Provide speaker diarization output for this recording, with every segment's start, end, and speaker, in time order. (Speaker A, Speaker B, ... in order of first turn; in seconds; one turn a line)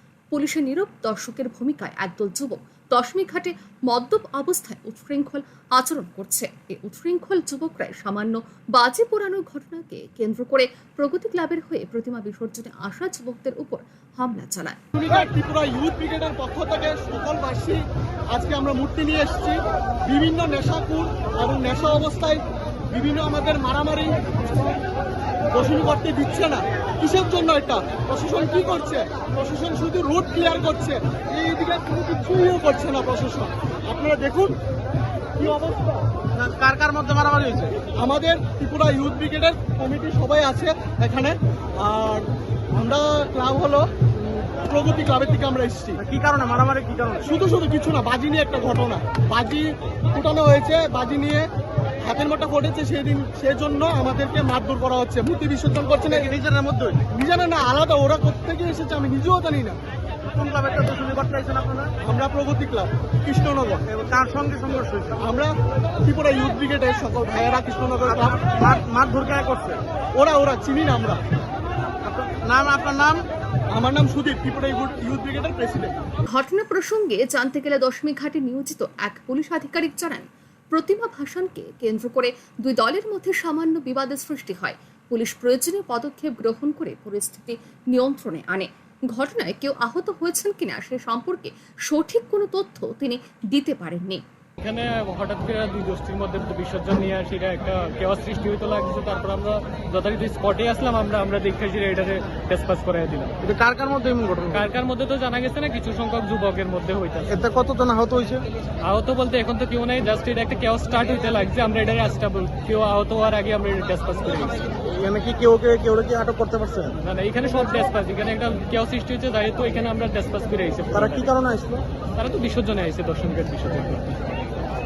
Speaker A: 0.3-14.8
Speaker B: 14.9-24.2
Speaker B: 25.5-34.5
Speaker B: 35.4-36.0
Speaker C: 36.4-37.8
Speaker B: 37.9-43.9
Speaker B: 44.6-46.0
Speaker C: 46.0-47.3
Speaker B: 47.3-51.5
Speaker B: 52.0-56.3
Speaker C: 56.1-57.1
Speaker B: 57.1-59.8
Speaker C: 60.3-61.9
Speaker B: 62.0-63.9
Speaker C: 63.9-65.2
Speaker B: 65.2-65.5
Speaker B: 66.0-68.5
Speaker C: 68.1-69.8
Speaker B: 70.2-71.2
Speaker C: 72.0-73.3
Speaker B: 73.7-76.0
Speaker A: 76.3-94.2
Speaker D: 94.6-103.4
Speaker C: 103.4-104.6
Speaker D: 104.5-107.4
Speaker C: 107.3-108.4
Speaker D: 108.8-114.6
Speaker C: 114.9-117.0
Speaker D: 117.0-121.3
Speaker C: 120.9-121.8
Speaker D: 122.2-124.3